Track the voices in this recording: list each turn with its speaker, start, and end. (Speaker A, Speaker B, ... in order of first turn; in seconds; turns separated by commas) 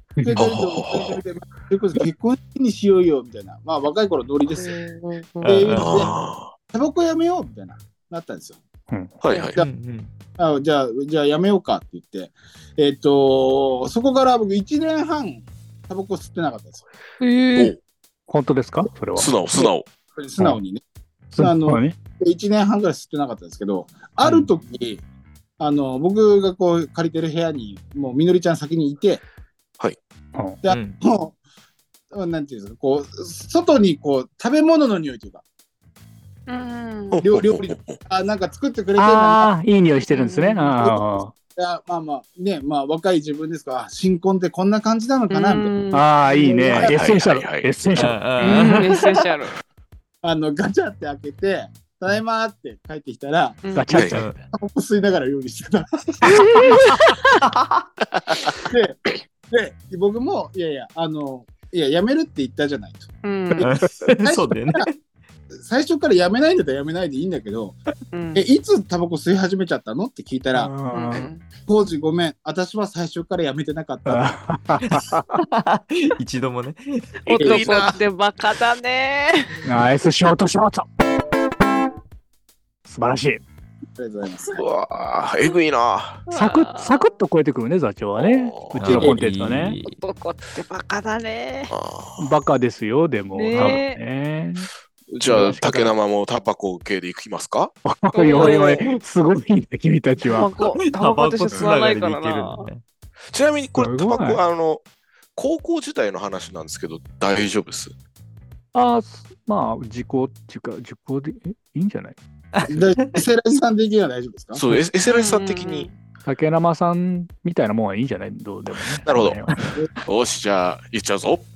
Speaker A: 0.2-0.5, Speaker B: 0.2-4.8, Speaker C: 0.4-1.2, Speaker D: 4.5-5.6, Speaker E: 5.4-6.1, Speaker B: 5.4-6.1, Speaker C: 5.8-6.5, Speaker B: 6.7-8.6, Speaker A: 8.9-9.2, Speaker C: 9.2-9.6, Speaker B: 9.4-9.7, Speaker E: 9.6-10.1, Speaker B: 10.4-16.8, Speaker D: 17.2-17.8, Speaker A: 18.3-19.7, Speaker C: 19.2-19.9, Speaker B: 20.1-20.8, Speaker A: 21.3-22.0, Speaker B: 21.4-25.0, Speaker B: 25.6-29.2, Speaker B: 30.6-31.4, Speaker E: 30.7-31.0, Speaker B: 32.1-35.4, Speaker D: 36.5-37.2, Speaker C: 37.1-38.0, Speaker B: 37.2-39.5, Speaker A: 39.0-41.3, Speaker D: 40.1-40.8, Speaker B: 40.8-45.7, Speaker D: 45.3-46.9, Speaker A: 45.9-48.2, Speaker C: 46.8-47.7, Speaker E: 48.0-49.0, Speaker D: 48.4-49.5, Speaker B: 50.2-56.6, Speaker D: 53.6-54.0, Speaker A: 53.7-54.3, Speaker C: 53.9-54.2, Speaker E: 54.1-54.4, Speaker D: 56.3-57.4, Speaker E: 57.6-57.8, Speaker B: 58.7-63.7, Speaker D: 63.2-63.7, Speaker E: 63.6-65.0, Speaker B: 64.2-64.9, Speaker B: 65.6-67.8, Speaker D: 68.1-68.5, Speaker B: 68.3-70.8, Speaker A: 70.5-71.3, Speaker D: 70.9-71.4, Speaker B: 71.7-74.4, Speaker A: 74.1-75.4, Speaker E: 74.9-77.2, Speaker D: 77.2-79.6, Speaker C: 77.3-78.0, Speaker B: 77.3-77.8, Speaker A: 79.7-80.9, Speaker A: 82.9-83.4, Speaker B: 84.0-84.6, Speaker C: 84.5-86.2, Speaker D: 86.3-87.1, Speaker A: 86.3-89.8, Speaker C: 88.2-89.1, Speaker E: 88.8-90.0, Speaker D: 89.8-91.7, Speaker C: 91.7-92.3, Speaker A: 92.2-94.7, Speaker D: 93.3-94.0, Speaker C: 95.1-97.7, Speaker A: 95.2-95.9, Speaker A: 97.8-100.5, Speaker D: 98.1-99.0, Speaker D: 100.2-102.7, Speaker E: 100.9-102.8, Speaker C: 103.3-104.8, Speaker A: 103.8-104.4, Speaker C: 105.4-107.9, Speaker A: 108.7-112.2, Speaker E: 112.5-113.2, Speaker B: 112.7-114.6, Speaker C: 114.5-115.9, Speaker D: 115.0-116.0, Speaker A: 116.3-119.6, Speaker C: 119.1-119.5, Speaker C: 120.0-121.5